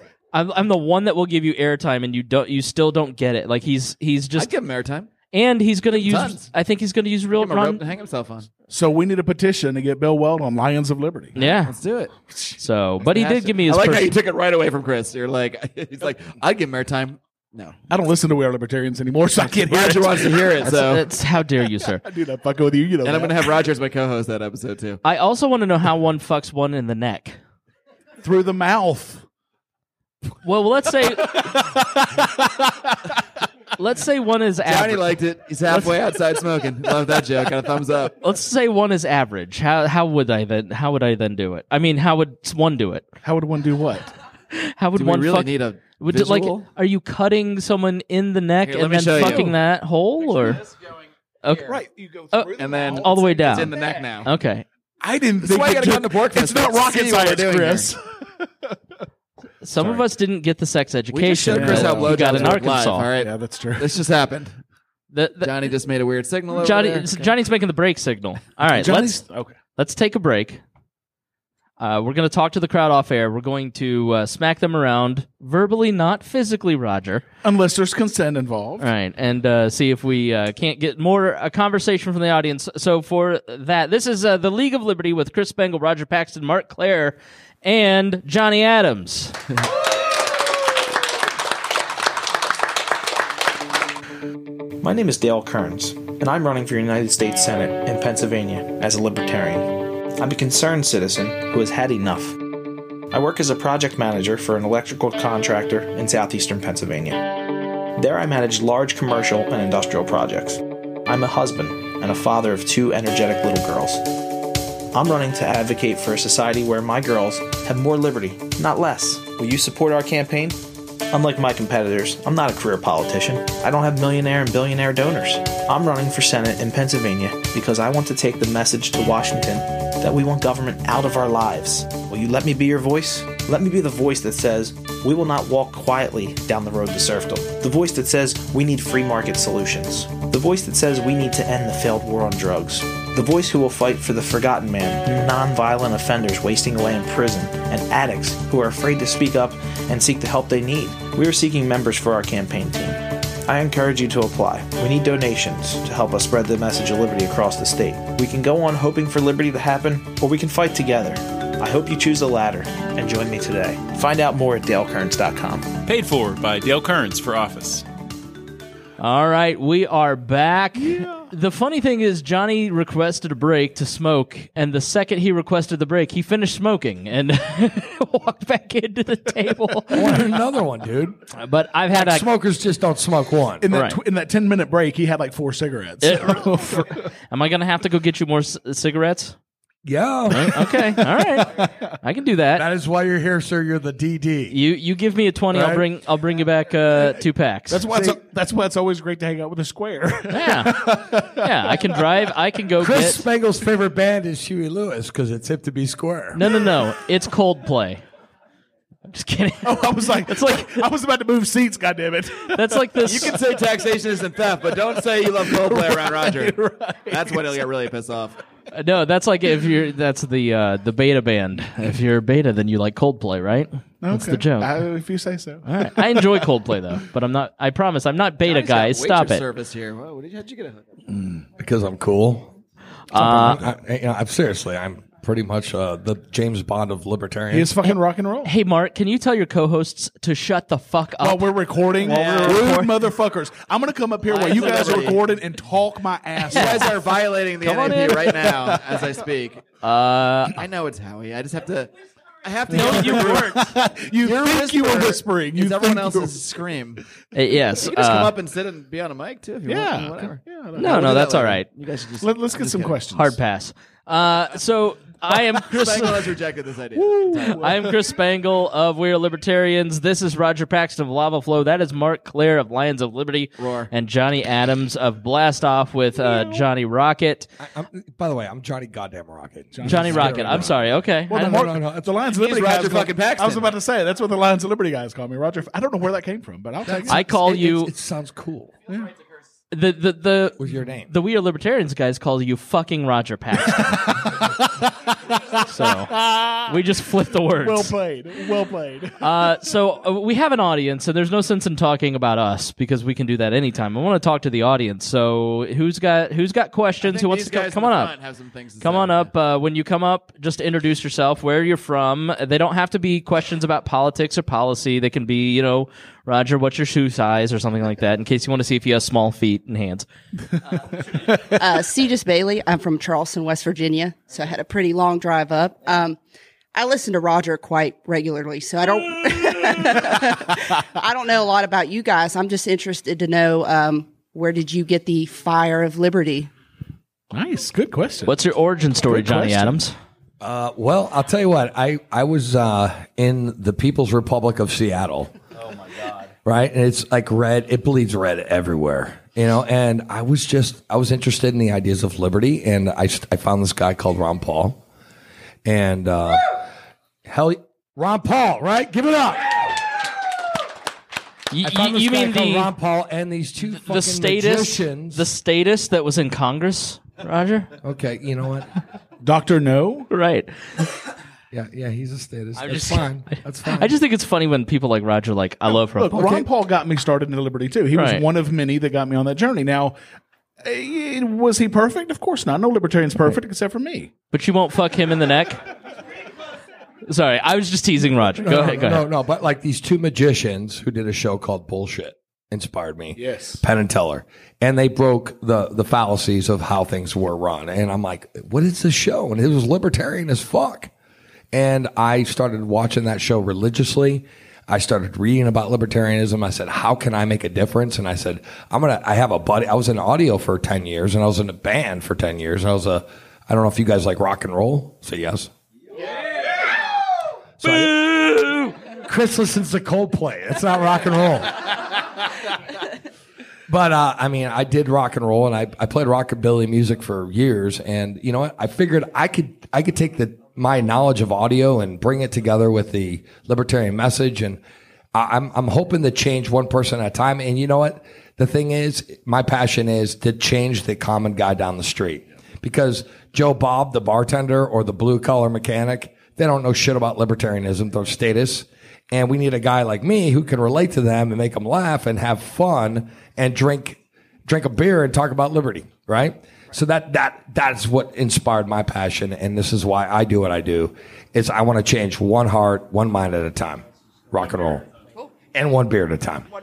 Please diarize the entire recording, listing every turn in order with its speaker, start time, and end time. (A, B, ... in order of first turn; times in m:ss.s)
0:00.3-0:04.5 A
0:04.4-0:05.1 B
0:05.3-0:07.8 A
0:05.9-0:06.5 B
0:07.4-0:08.5 B
0:08.7-0:11.4 C
0:11.4-0:11.7 A
0:11.4-0:12.1 B
0:12.6-0:14.1 A
0:13.0-0:17.8 B
0:17.9-0:20.7 C
0:19.5-0:21.0 B
0:20.6-0:22.0 A
0:22.0-0:23.6 C
0:23.0-0:25.0 B
0:25.0-0:27.4 A
0:28.2-0:29.2 C
0:30.4-0:31.4 A
0:31.2-0:33.0 C
0:33.8-0:35.1 A
0:34.6-0:38.2 B
0:38.2-0:43.1 A
0:43.2-0:44.1 C
0:44.5-0:50.6 A
0:45.0-0:46.6 B
0:48.6-0:49.5 B
0:49.2-0:49.5 C
0:51.4-0:51.8 A
0:51.7-0:53.7 C
0:52.3-0:54.7 A
0:52.6-0:54.3 B
0:55.0-0:58.8 C
0:55.4-0:57.9 B
0:59.6-1:03.1 A
0:59.8-1:00.0 C
1:01.1-1:04.6 B
1:01.5-1:04.0 C
1:05.1-1:05.5 A
1:05.4-1:07.3 B
1:06.6-1:09.2 A
1:08.7-1:09.6 C
1:09.8-1:10.6 A
1:11.8-1:17.2 A
1:17.4-1:18.9 C
1:18.8-1:29.4 A
1:34.8-1:42.5 D
1:43.1-1:54.1 D
1:54.9-2:45.8 D
2:45.9-2:47.8 E
2:49.0-3:00.3 A
2:59.9-3:01.2 F
3:01.4-3:02.3 A
3:01.9-3:03.6 F
3:03.6-3:07.0 C
3:03.7-3:04.0 A
3:06.0-3:09.4 A
3:09.8-3:10.9 F
3:10.3-3:12.6 A
3:12.6-3:14.6 F
3:14.5-3:17.8 A
3:15.5-3:15.8 F
3:17.7-3:21.9 C
3:17.9-3:18.2 F
3:20.3-3:23.2 A
3:22.8-3:26.5 F
3:26.3-3:28.0 A
3:29.1-3:30.8 A
3:29.6-3:33.4 C
3:32.5-3:33.3 A
3:33.1-3:36.6 B
3:35.2-3:37.6 C
3:37.1-3:38.4 B
3:38.7-3:44.7 A
3:44.0-3:46.5 C
3:45.6-3:49.4 A
3:48.4-3:50.8 B
3:51.6-3:52.5 F
3:53.1-3:53.6 A
3:53.1-3:57.7 F
3:57.5-3:58.5 C
3:57.8-4:01.5 A
4:01.2-4:07.0 C
4:02.0-4:02.9 A
4:02.1-4:02.7 B
4:04.3-4:05.2 B
4:06.5-4:09.6 B
4:06.5-4:06.9 A
4:07.6-4:08.3 A
4:07.9-4:08.8 C
4:09.8-4:10.6 A
4:10.6-4:11.9 B
4:12.4-4:13.7 B
4:12.7-4:16.4 C
4:12.7-4:13.7 A
4:14.2-4:17.0 B
4:17.3-4:18.3 A
4:17.8-4:23.0 B
4:19.7-4:21.3 C
4:20.8-4:21.7 A
4:22.2-4:23.4 C
4:23.1-4:26.3 A
4:25.6-4:27.7 B
4:27.0-4:28.0 C
4:27.6-4:37.5 A
4:33.6-4:33.9 B
4:36.2-4:36.6 C
4:37.6-4:42.1 F
4:39.7-4:40.8 C
4:39.8-4:41.6 A
4:41.3-4:47.2 C
4:42.3-4:43.7 B
4:46.8-4:48.7 F
4:47.1-4:47.9 A
4:49.7-4:54.0 A
4:50.6-4:51.1 F
4:53.7-4:54.8 C
4:55.7-4:56.1 A
4:55.8-4:56.8 C
4:56.7-4:57.9 A
4:57.6-4:59.5 C
4:59.2-5:08.1 A
5:07.0-5:09.3 B
5:08.8-5:20.1 A
5:21.2-5:21.4 C
5:21.6-5:26.2 G
5:26.8-5:36.5 G
5:37.3-5:38.4 C
5:38.3-5:40.0 A
5:39.1-5:39.8 C
5:40.4-5:45.3 F
5:46.4-5:54.8 F
5:55.6-5:56.5 F
5:57.2-5:59.8 F
6:01.5-6:02.7 A
6:01.6-6:05.3 F
6:03.7-6:07.7 A
6:07.8-6:08.7 F
6:09.2-6:10.1 C
6:10.1-6:10.5 A
6:11.5-6:13.9 F
6:12.6-6:16.4 A
6:16.0-6:20.0 C
6:16.2-6:16.4 F
6:17.9-6:18.2 A
6:20.6-6:24.1 C
6:24.3-6:25.6 A
6:27.1-6:29.1 A
6:28.4-6:40.9 F
6:33.2-6:33.6 C
6:41.5-6:55.5 F
6:57.6-6:58.2 F
6:57.6-6:58.8 A
6:59.0-7:01.8 F
7:03.7-7:14.6 F
7:15.1-7:44.8 F
7:45.5-7:46.4 F